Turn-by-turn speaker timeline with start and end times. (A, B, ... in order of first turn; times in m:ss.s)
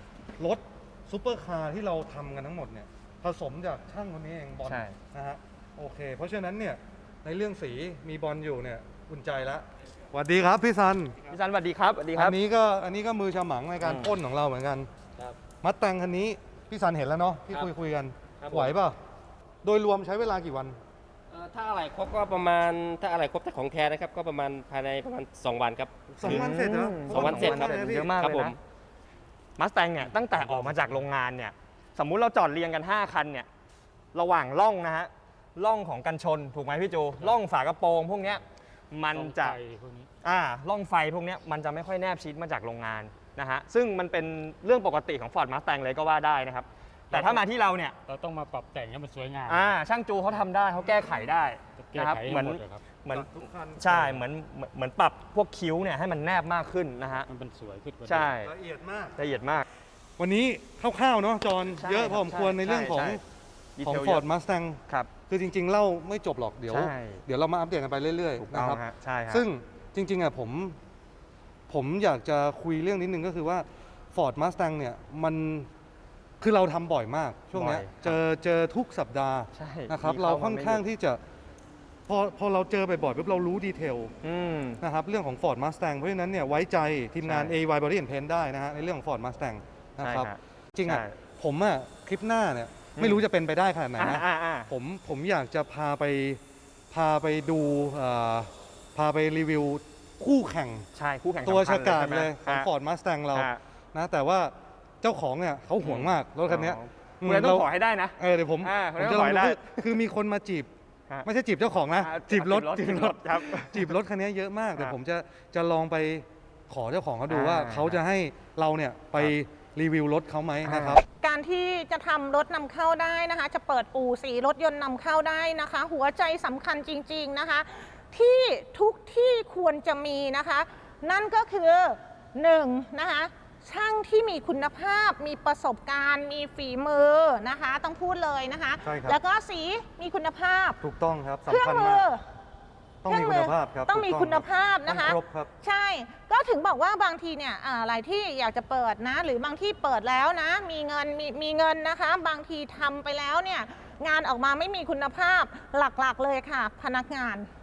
0:00.4-0:11.2 A
0:04.6-0:05.0 B
0:11.3-0:12.4 B
0:12.1-0:14.9 A
0:13.8-0:14.1 B
0:15.6-0:19.0 A
0:18.4-0:18.7 C
0:19.6-0:20.8 A
0:21.3-0:28.6 C
0:26.2-0:28.1 A
0:26.2-0:28.6 B
0:29.6-0:33.5 B
0:30.0-0:31.0 D
0:34.1-0:39.6 B
0:39.1-0:40.1 D
0:40.2-0:48.0 B
0:47.1-0:47.4 D
0:48.0-0:49.8 D
0:49.5-0:57.3 B
0:51.8-0:52.8 D
0:53.1-0:54.2 A
0:57.3-0:58.4 D
0:58.0-0:58.5 B
0:58.4-0:59.2 A
0:59.2-0:59.6 B
1:00.2-1:03.2 A
1:01.8-1:03.2 B
1:03.8-1:04.2 B
1:03.8-1:10.8 A
1:06.7-1:07.2 B
1:08.4-1:09.4 B
1:11.7-1:15.7 A
1:16.4-1:21.2 A
1:17.5-1:18.2 B
1:19.5-1:20.8 B
1:22.1-1:24.1 A
1:24.2-1:24.8 B
1:24.8-1:40.9 A
1:27.2-1:27.6 B
1:30.0-1:31.2 B
1:33.0-1:33.2 B
1:34.0-1:34.7 B
1:40.9-1:42.7 B
1:41.4-1:50.7 A
1:43.3-1:43.6 B
1:45.8-1:49.8 B
1:51.2-2:01.0 A
1:52.0-1:53.9 B
1:57.3-1:58.0 B
2:00.6-2:01.0 B
2:01.2-2:20.8 E
2:18.8-2:19.2 A
2:20.8-2:22.0 A
2:21.5-2:22.2 E
2:23.0-2:25.5 A
2:23.1-2:37.5 E